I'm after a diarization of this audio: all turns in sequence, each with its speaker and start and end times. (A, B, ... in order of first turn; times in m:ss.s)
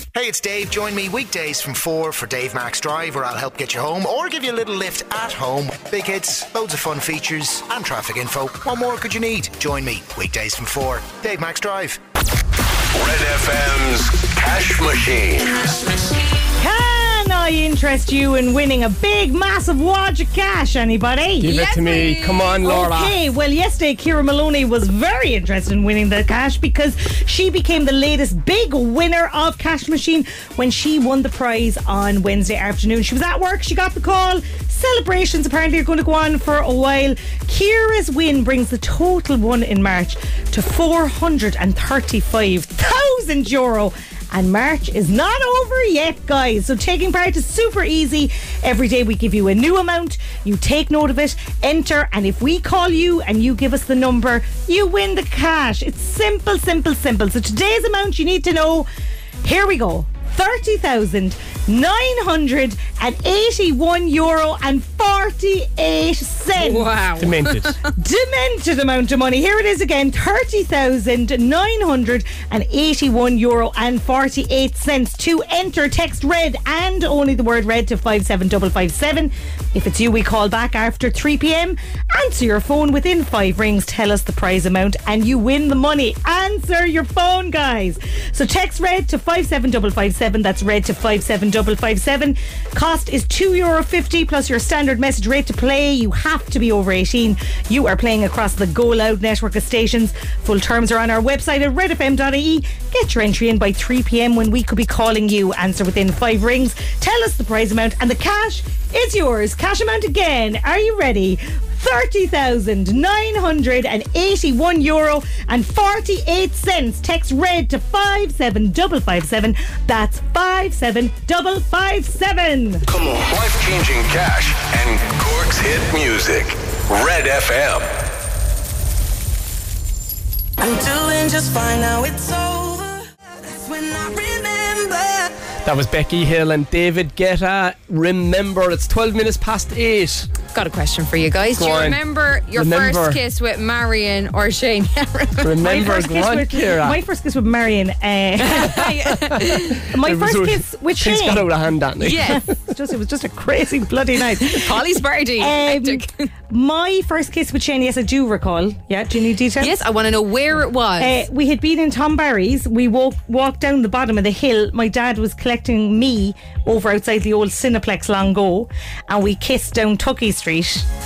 0:00.1-0:12.0 A
0:12.9-0:16.1 B
0:16.6-0:21.6 C
0:21.4-0:23.1 D
0:21.4-0:22.7 E
0:22.6-0:58.9 C
0:59.4-1:06.9 C
1:06.6-1:07.8 E
1:07.2-1:07.8 D
1:08.0-2:02.8 C
2:02.9-2:07.9 B
2:10.6-2:15.3 F
2:15.6-2:20.3 D
2:20.5-2:25.6 E
2:21.6-2:22.0 D
2:22.5-2:23.2 D
2:25.4-2:27.0 D
2:25.6-2:28.9 C
2:28.4-2:29.8 E
2:29.2-2:29.4 D
2:29.9-2:31.5 C
2:29.9-2:32.4 D
2:32.0-2:32.4 E
2:32.1-2:34.8 C
2:34.4-2:36.2 E
2:35.4-2:39.7 C
2:39.6-2:41.2 E
2:41.0-2:50.8 C